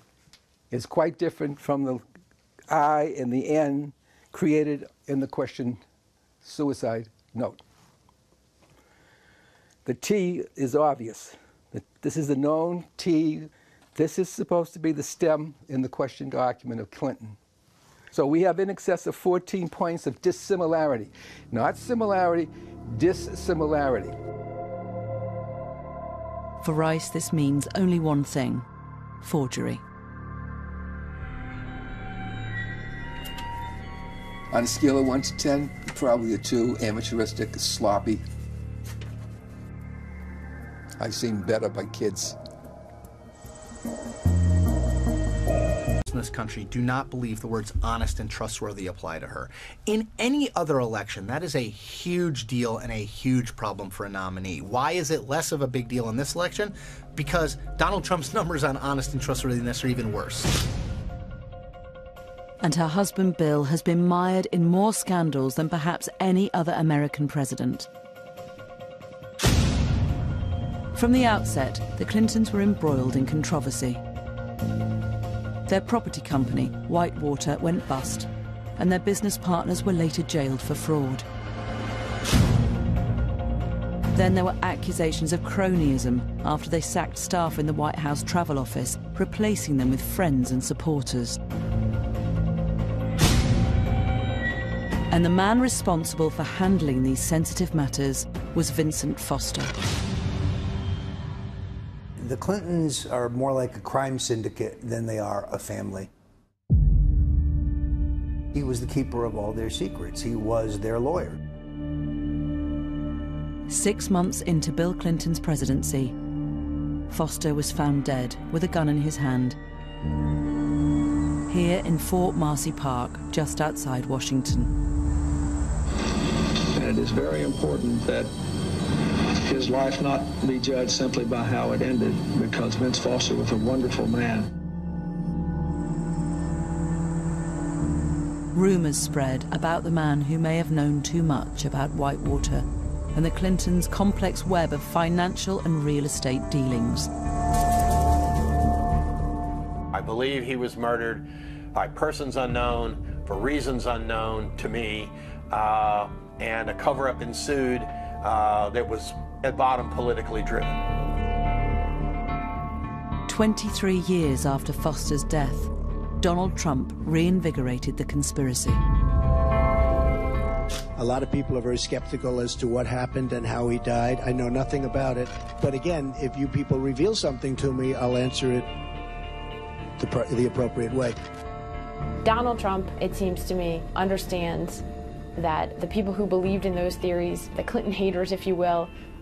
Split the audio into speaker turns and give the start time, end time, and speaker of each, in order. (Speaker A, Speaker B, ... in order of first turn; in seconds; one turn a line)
Speaker A: 0.7-2.0
Speaker A: 2.7-5.8
Speaker A: 6.4-7.6
Speaker A: 9.8-17.4
Speaker A: 18.1-24.1
Speaker B: 26.6-28.7
Speaker B: 29.2-29.8
Speaker A: 34.5-38.2
Speaker A: 41.0-42.4
Speaker C: 46.1-60.5
Speaker B: 62.6-67.9
Speaker B: 70.9-74.0
Speaker B: 75.7-81.2
Speaker B: 84.1-91.4
Speaker B: 95.1-99.7
Speaker D: 102.2-106.1
Speaker D: 108.5-111.4
Speaker B: 113.7-116.1
Speaker B: 117.1-119.6
Speaker B: 121.5-124.7
Speaker E: 126.7-128.3
Speaker E: 129.4-134.5
Speaker B: 138.5-147.1
Speaker F: 150.2-150.8
Speaker F: 152.2-153.1
Speaker F: 153.9-154.7
Speaker F: 157.3-157.6
Speaker B: 163.3-168.8
Speaker G: 170.9-178.7
Speaker G: 180.0-181.2
Speaker H: 182.2-184.8
Speaker H: 185.3-188.9